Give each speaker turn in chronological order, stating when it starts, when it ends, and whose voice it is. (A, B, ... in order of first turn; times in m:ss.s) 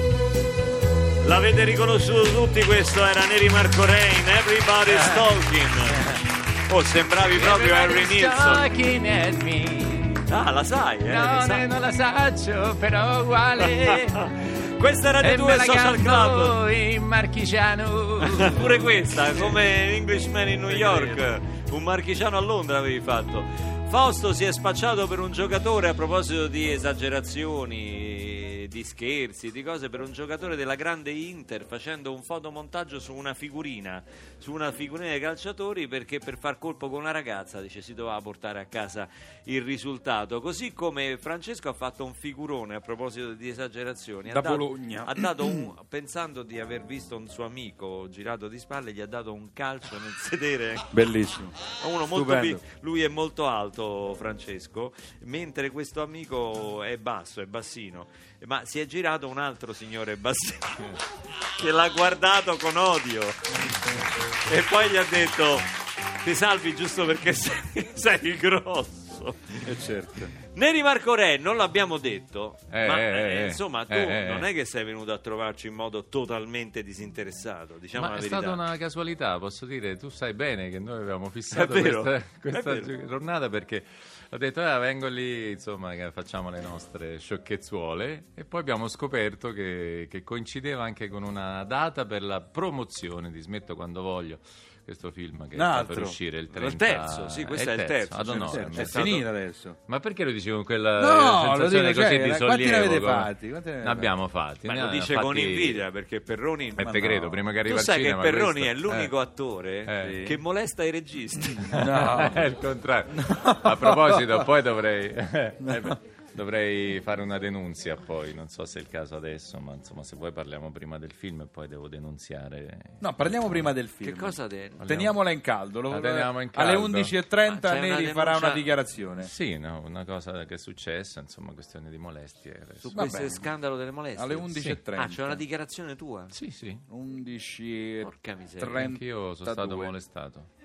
0:01.2-0:06.2 A
0:04.9-0:05.4 B
0:06.7-0:08.7 A
0:07.3-0:10.3 B
0:10.3-0:11.7 A
0:11.1-0:14.6 B
0:14.8-0:16.6 A
0:15.2-0:19.6 B
0:18.2-0:50.9 A
0:20.6-0:21.2 B
0:44.3-0:45.7 C
0:50.9-0:52.6 C
0:51.7-1:01.0 A
1:01.6-1:03.4 A
1:04.4-1:09.5 A
1:09.5-1:10.3 C
1:10.4-1:18.6 A
1:12.7-1:14.5 B
1:17.9-1:39.3 B
1:21.5-1:22.9 A
1:35.5-1:36.2 C
1:36.5-1:39.3 A
1:38.3-1:39.8 C
1:39.9-1:45.9 B
1:41.0-1:44.1 C
1:44.6-1:47.0 A
1:46.8-1:49.1 B
1:46.8-1:47.4 C
1:47.6-1:51.7 A
1:49.8-1:50.1 B
1:49.9-1:50.4 C
1:51.6-2:03.7 B
1:51.6-1:52.5 C
1:53.2-1:54.5 C
1:55.6-1:56.0 C
2:03.0-2:09.3 C
2:04.0-2:05.0 A
2:04.8-2:05.2 B
2:05.9-2:07.2 B
2:07.4-2:08.7 A
2:09.2-2:13.2 B
2:12.8-2:16.3 A
2:12.9-2:13.5 C
2:14.1-2:15.4 C
2:14.5-2:14.8 B
2:16.3-2:16.8 B
2:16.9-2:19.9 C
2:18.0-2:18.7 A
2:18.7-2:20.5 B